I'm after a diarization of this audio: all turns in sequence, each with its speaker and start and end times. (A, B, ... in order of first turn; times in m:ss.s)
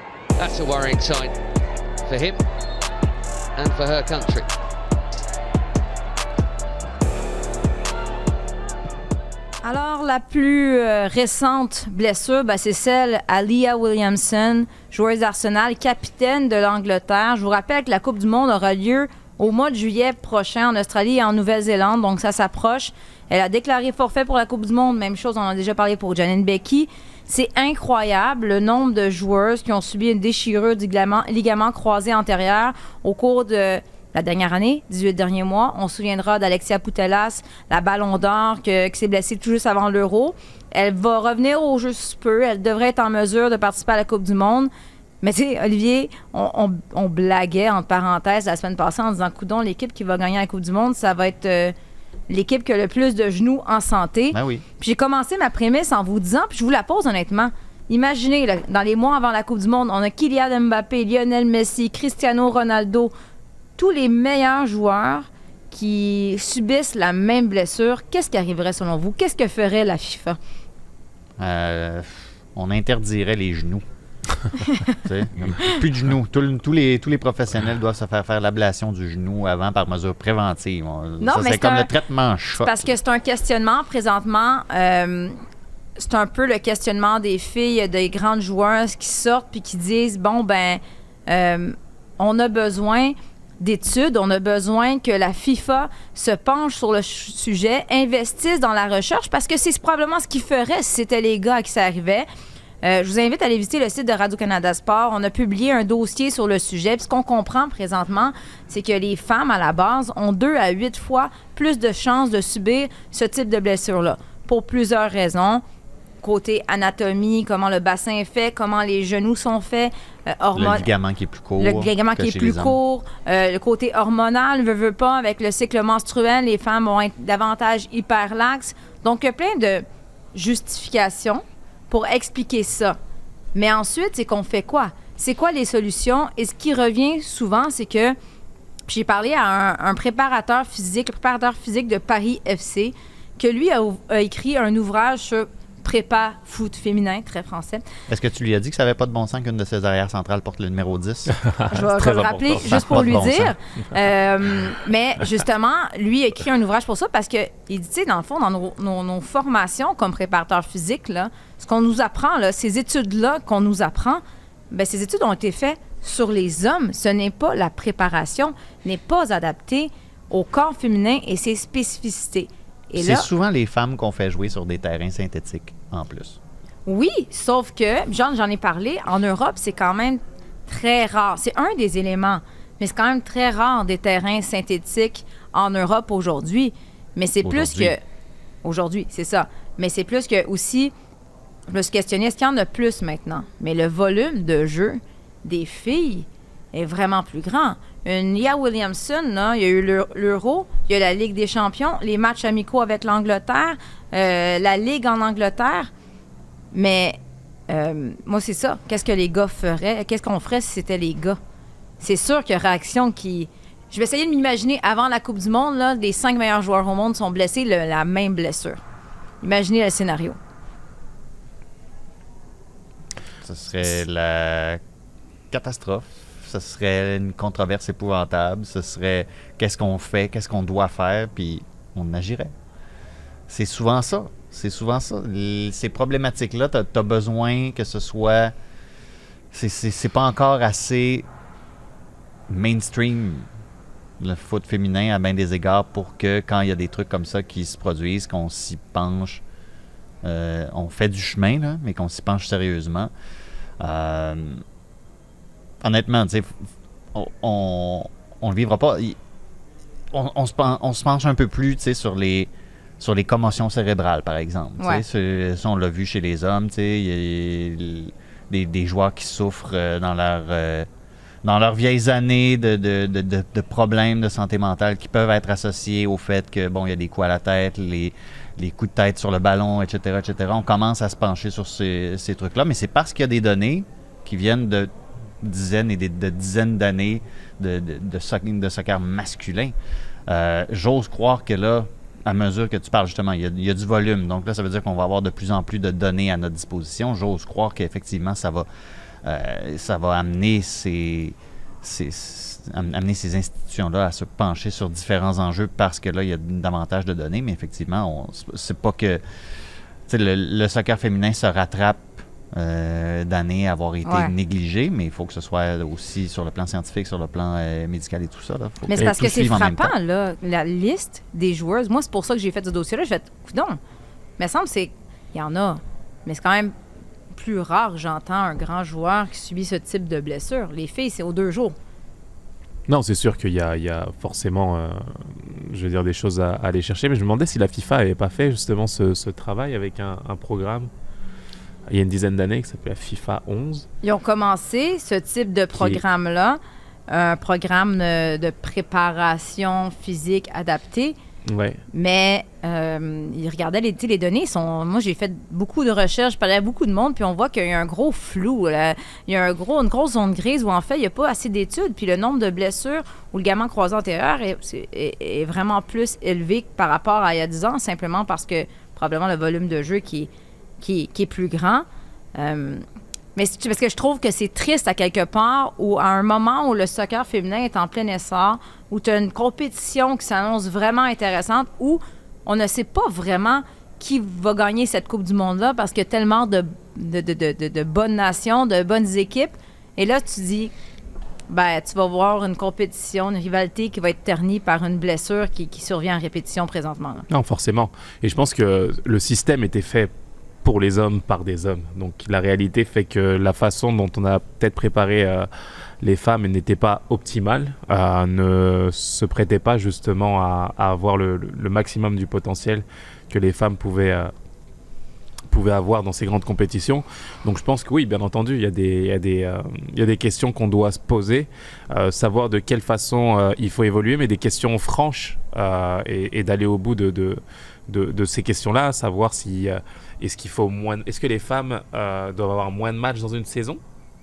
0:00.4-0:01.4 A
0:02.0-0:02.4 A
0:03.6-0:04.5 A
0:09.6-0:44.7 B
0:45.2-0:51.7 B
0:52.3-1:03.1 B
0:54.3-0:54.6 C
1:03.8-1:10.4 B
1:11.4-1:13.8 C
1:14.6-1:14.9 B
1:14.9-1:23.0 C
1:21.2-1:21.9 B
1:22.6-1:25.4 B
1:26.0-1:42.3 B
1:42.8-1:55.6 B
1:56.2-2:00.9 B
2:00.5-2:02.8 C
2:01.6-2:13.0 B
2:13.6-2:18.2 B
2:18.9-2:27.8 B
2:28.1-2:31.4 C
2:31.4-2:33.1 D
2:31.7-2:53.3 B
2:32.7-2:33.6 C
2:53.0-2:56.4 C
2:56.9-3:08.0 B
3:07.4-3:08.0 C
3:08.6-3:10.9 B
3:11.7-3:25.9 B
3:26.7-3:27.2 B
3:27.7-3:31.4 B
3:32.0-3:38.8 B
3:39.4-3:40.4 B
3:43.4-3:44.8 C
3:45.5-3:52.5 C
3:53.5-3:58.5 C
3:59.5-4:01.3 C
4:02.5-4:03.5 C
4:04.2-4:09.4 C
4:10.2-4:13.1 C
4:13.8-4:14.6 C
4:15.8-4:19.2 C
4:20.1-4:30.9 C
4:24.8-4:25.0 B
4:31.4-4:49.7 C
4:50.3-4:58.7 C
4:59.2-5:09.2 C
5:10.1-5:19.9 C
5:14.0-5:14.3 B
5:18.8-5:23.8 B
5:24.4-5:26.7 B
5:27.3-5:31.8 B
5:32.9-5:40.9 D
5:41.9-5:43.9 D
5:44.0-5:51.2 B
5:45.7-5:46.0 D
5:51.5-5:51.8 D
5:51.9-6:12.8 B
6:13.4-6:30.7 B
6:31.5-6:37.2 B
6:37.3-6:40.1 D
6:40.6-6:45.5 D
6:46.0-6:54.3 D
6:55.5-7:13.8 D